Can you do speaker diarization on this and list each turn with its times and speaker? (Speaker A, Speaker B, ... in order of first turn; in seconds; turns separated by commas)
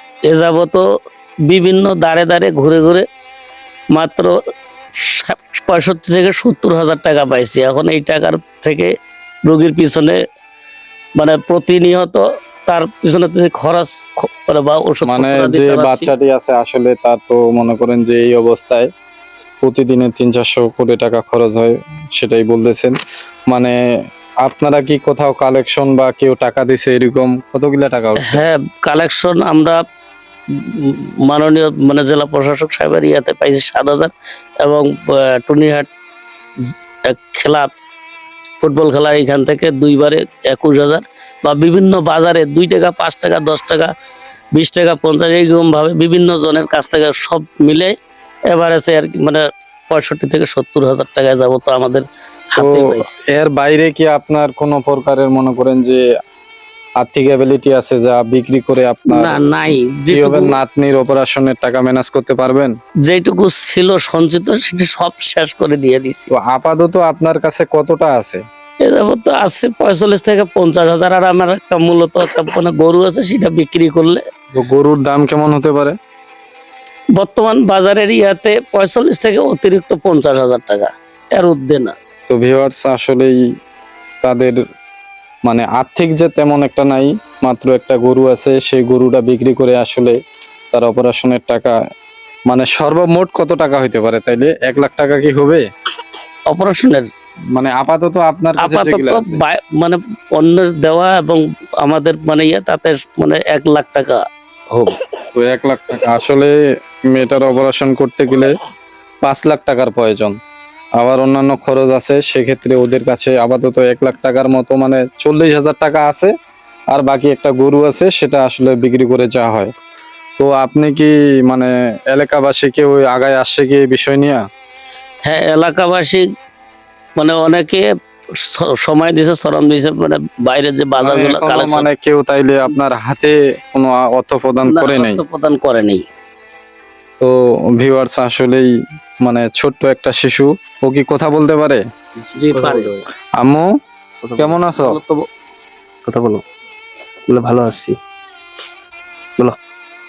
Speaker A: 0.3-0.8, Speaker A: 1.5-3.1, Speaker A: 3.9-4.4, Speaker A: 5.0-8.9, Speaker A: 9.5-10.2, Speaker A: 11.2-16.1, Speaker B: 15.1-18.9, Speaker B: 19.6-23.0, Speaker B: 23.5-23.8, Speaker B: 24.4-28.4, Speaker A: 28.3-29.8, Speaker A: 30.5-35.9, Speaker A: 37.0-37.7, Speaker A: 38.6-43.9, Speaker A: 44.6-47.9, Speaker A: 48.5-53.1, Speaker B: 52.6-56.0, Speaker B: 57.0-59.4, Speaker A: 59.1-60.6, Speaker B: 60.1-62.7, Speaker A: 63.1-66.3, Speaker B: 66.3-68.4, Speaker A: 68.8-74.2, Speaker B: 74.6-76.0, Speaker A: 77.2-81.9, Speaker B: 82.3-83.4, Speaker B: 84.2-84.6, Speaker B: 85.5-90.2, Speaker B: 90.7-91.8, Speaker B: 92.5-95.6, Speaker A: 96.5-97.1, Speaker B: 97.5-99.4, Speaker A: 98.6-104.2, Speaker B: 105.3-106.5, Speaker B: 107.1-108.5, Speaker B: 109.2-110.4, Speaker B: 111.0-116.3, Speaker B: 116.9-119.7, Speaker B: 120.4-124.4, Speaker A: 125.3-126.2, Speaker A: 127.2-127.9, Speaker A: 128.5-131.9, Speaker B: 131.0-135.2, Speaker A: 134.7-136.1, Speaker B: 137.2-138.7, Speaker B: 139.2-141.8, Speaker C: 142.3-143.0, Speaker A: 142.4-142.9, Speaker B: 143.4-143.7, Speaker C: 144.2-144.6, Speaker B: 144.4-145.0, Speaker A: 144.8-145.2, Speaker C: 146.1-146.4, Speaker C: 147.3-148.0